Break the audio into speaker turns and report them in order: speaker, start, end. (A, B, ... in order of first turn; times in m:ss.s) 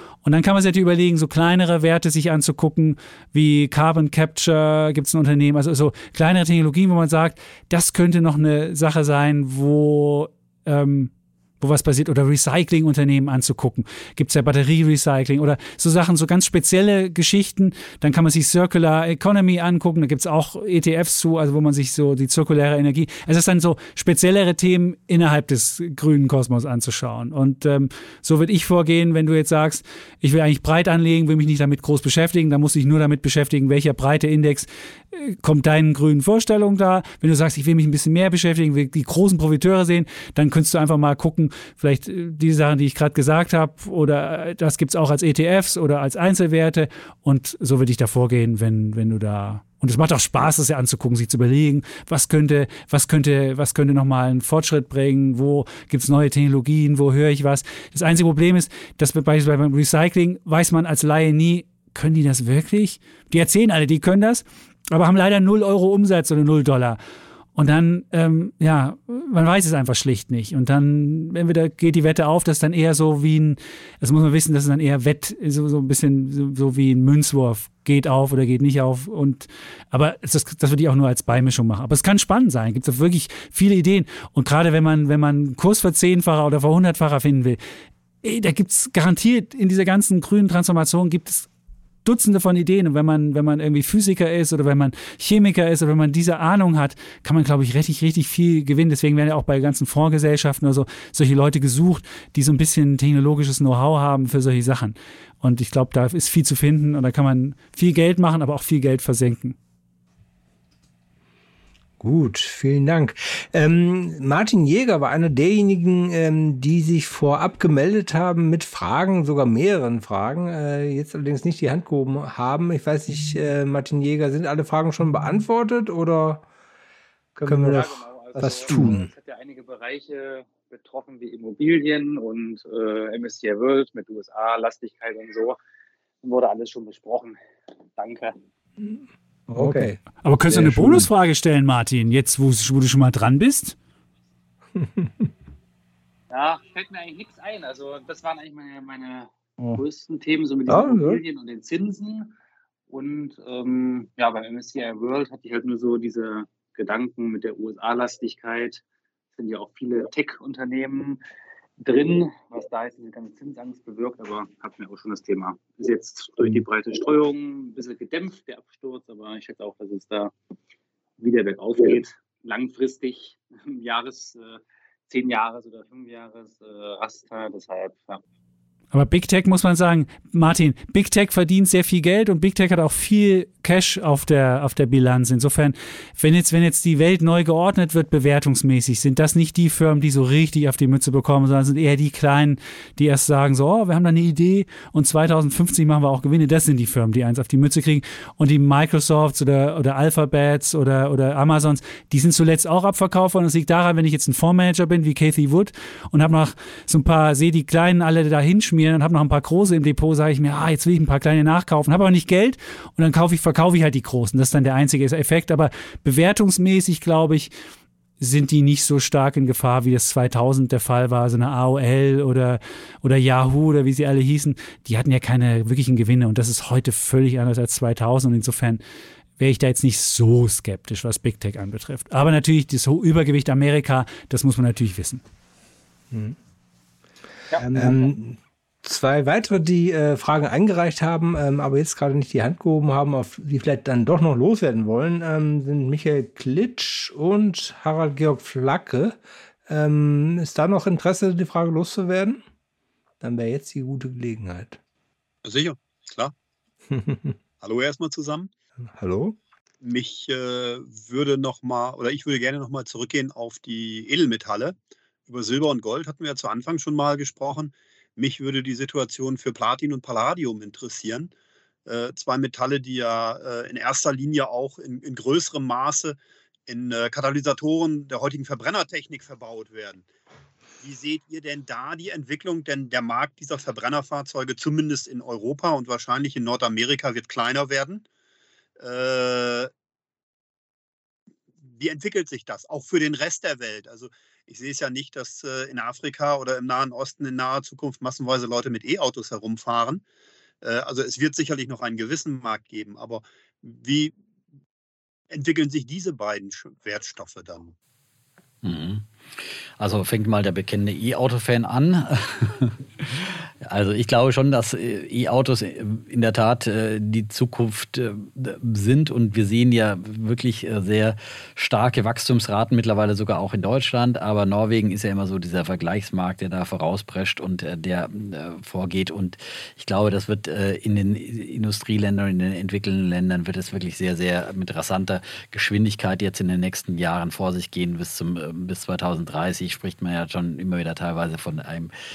0:00.2-1:07.0 A
1:07.6-1:27.6 A
1:28.2-1:31.5 A
1:32.0-1:49.6 A
1:52.0-2:06.4 B
2:07.4-2:09.1 B
2:07.4-2:15.6 C
2:16.2-2:17.4 C
2:18.0-2:18.3 C
2:18.8-2:21.1 B
2:20.2-2:23.8 A
2:24.8-2:25.1 B
2:26.3-2:32.3 C
2:30.7-2:31.2 B
2:32.9-2:38.8 C
2:39.4-2:41.2 C
2:41.8-2:50.3 C
2:51.2-2:58.2 C
2:58.9-3:37.5 A
3:38.2-3:48.8 A
3:49.4-3:55.2 A
3:56.1-3:56.4 B
3:57.5-3:58.1 C
3:57.6-4:12.4 B
4:13.2-4:14.8 B
4:15.4-4:16.3 D
4:16.9-4:17.4 B
4:17.6-4:18.5 D
4:18.8-4:19.4 B
4:19.8-4:24.8 D
4:25.3-4:31.3 D
4:31.8-4:40.0 D
4:40.8-4:48.0 D
4:48.8-4:49.7 D
4:51.7-5:00.0 D
5:00.6-5:04.1 D
5:05.3-5:07.7 D
5:08.6-5:41.9 E